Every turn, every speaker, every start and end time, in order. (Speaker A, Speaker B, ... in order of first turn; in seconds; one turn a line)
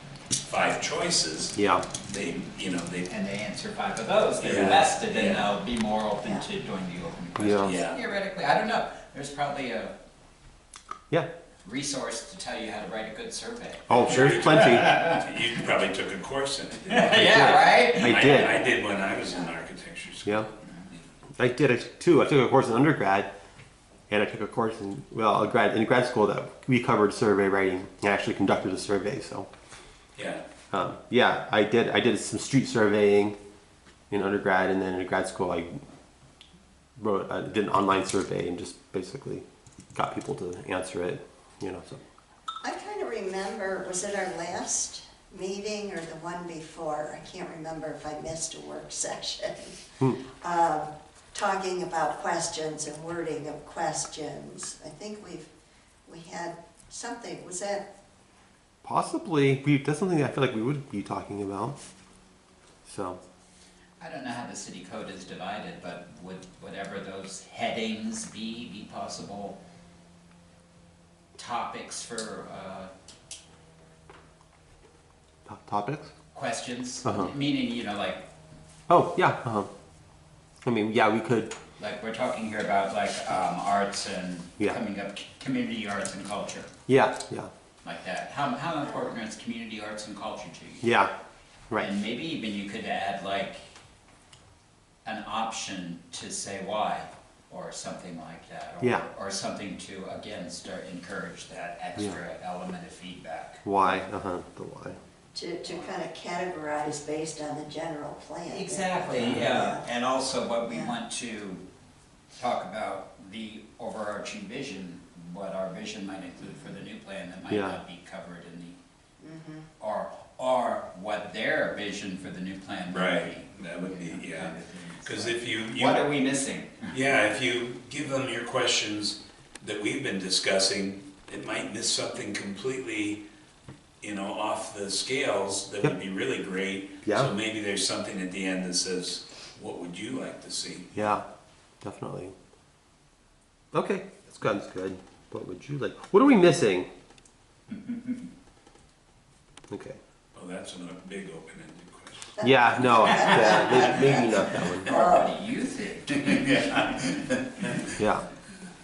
Speaker A: 0.4-3.1
Speaker B: 1.6-1.9
Speaker C: 3.1-9.9
Speaker A: 4.4-5.5
Speaker B: 4.5-4.9
Speaker B: 7.4-7.8
Speaker A: 7.6-8.0
Speaker C: 11.6-15.2
Speaker B: 13.9-15.0
Speaker A: 14.0-20.6
Speaker C: 16.9-18.6
Speaker B: 17.1-18.6
Speaker B: 21.4-23.3
Speaker B: 24.1-29.5
Speaker A: 30.2-30.4
Speaker B: 30.7-33.4
Speaker B: 34.1-35.8
Speaker B: 37.0-42.0
Speaker D: 42.6-49.8
Speaker D: 50.4-55.5
Speaker D: 56.1-57.9
Speaker B: 58.8-61.8
Speaker B: 62.9-63.2
Speaker C: 64.0-69.6
Speaker C: 71.4-72.9
Speaker B: 75.5-76.1
Speaker C: 76.3-78.3
Speaker B: 77.0-77.3
Speaker B: 78.9-79.7
Speaker B: 80.7-81.5
Speaker C: 81.8-86.7
Speaker B: 86.9-87.5
Speaker C: 87.8-90.9
Speaker B: 90.8-91.1
Speaker C: 91.8-93.6
Speaker C: 95.0-103.6
Speaker B: 98.8-99.1
Speaker B: 103.6-105.0
Speaker D: 105.3-109.8
Speaker C: 105.7-105.9
Speaker C: 108.5-111.6
Speaker B: 109.3-109.7
Speaker D: 110.7-111.0
Speaker C: 112.4-118.8
Speaker B: 117.5-117.8
Speaker D: 119.2-119.7
Speaker C: 119.8-127.0
Speaker A: 122.9-126.1
Speaker A: 126.9-133.2
Speaker A: 134.0-141.2
Speaker B: 137.1-137.3
Speaker B: 140.9-141.3
Speaker B: 141.8-142.3
Speaker B: 143.7-146.9
Speaker C: 147.7-148.2
Speaker B: 149.7-150.0
Speaker A: 150.3-152.4
Speaker D: 152.4-154.2
Speaker B: 152.4-154.9
Speaker C: 153.1-157.9
Speaker D: 154.8-155.3
Speaker B: 158.0-158.3